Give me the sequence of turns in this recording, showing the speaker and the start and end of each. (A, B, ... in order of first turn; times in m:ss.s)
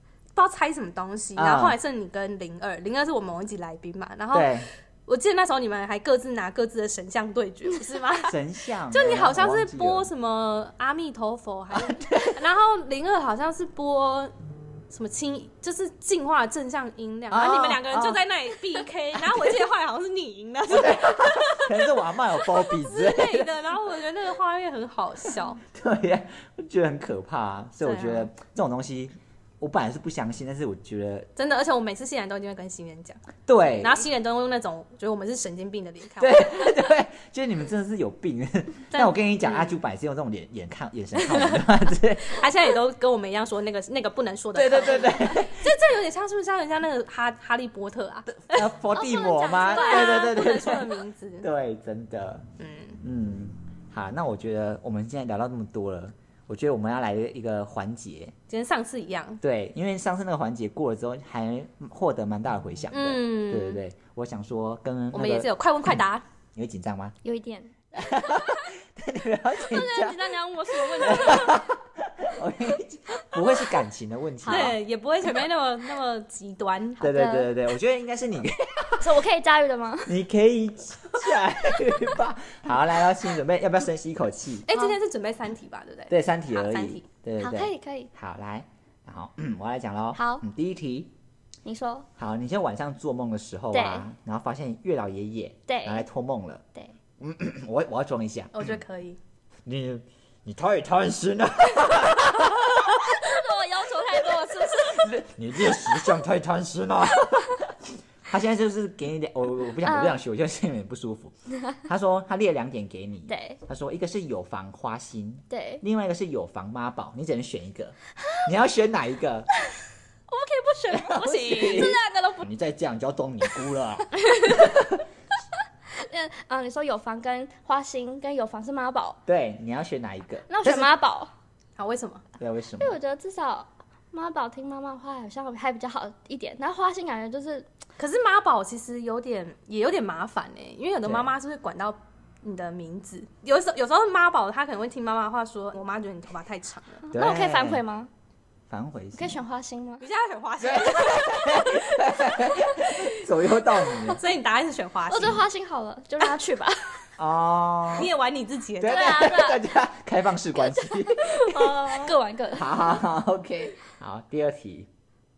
0:00.3-0:08.4 A
0:01.4-0:01.8 B
0:04.3-0:04.7 B
0:08.2-0:10.1 B
0:08.9-0:14.3 A
0:11.7-0:12.4 B
0:14.9-0:25.6 A
0:17.3-0:18.2 B
0:19.2-0:19.6 B
0:20.7-0:23.6 B
0:25.2-0:31.3 B
0:27.8-0:28.3 A
0:31.4-0:36.9 A
0:33.5-0:34.0 B
0:36.2-0:42.4 B
0:38.9-0:39.8 A
0:41.2-0:41.6 A
0:42.2-0:48.7 A
0:44.5-0:45.7 B
0:48.3-0:52.4 B
0:48.9-0:50.3 C
0:49.4-0:51.5 A
0:52.6-0:53.0 A
0:53.0-0:58.3 B
0:58.5-0:59.4 A
0:59.4-1:06.0 B
1:02.9-1:03.8 A
1:05.1-1:06.2 A
1:06.5-1:07.2 B
1:07.2-1:08.7 C
1:08.0-1:10.3 B
1:09.6-1:11.7 C
1:10.9-1:14.8 B
1:11.0-1:11.6 A
1:14.4-1:14.8 C
1:14.4-1:17.0 A
1:17.0-1:17.5 C
1:17.0-1:19.2 B
1:19.0-1:20.2 C
1:20.1-1:24.7 B
1:24.7-1:27.0 A
1:26.1-1:31.1 B
1:27.4-1:28.1 C
1:30.1-1:30.4 C
1:31.6-1:32.1 C
1:32.2-1:36.6 B
1:33.7-1:34.1 C
1:35.7-1:36.0 C
1:37.2-1:38.8 B
1:38.5-1:39.2 A
1:39.6-1:43.3 B
1:42.5-1:45.1 C
1:44.2-1:51.3 B
1:49.8-1:50.2 C
1:51.8-1:59.5 B
1:53.3-1:53.6 C
1:55.5-1:55.8 C
1:58.2-1:58.5 C
2:00.3-2:02.5 C
2:00.9-2:05.0 B
2:04.3-2:04.7 C
2:05.9-2:09.2 C
2:09.3-2:10.9 B
2:10.5-2:11.3 C
2:11.8-2:12.2 A
2:12.4-2:13.0 B
2:12.8-2:17.7 C
2:18.0-2:27.0 A
2:21.0-2:21.3 B
2:27.1-2:28.1 C
2:27.1-2:27.8 B
2:28.7-2:29.4 B
2:29.1-2:30.0 C
2:30.0-2:31.7 A
2:30.6-2:34.2 B
2:31.3-2:31.7 C
2:32.2-2:32.8 C
2:34.1-2:35.4 A
2:35.1-2:37.1 C
2:37.2-2:38.1 B
2:37.9-2:39.4 A
2:38.8-2:44.9 B
2:38.9-2:39.6 C
2:40.6-2:43.0 C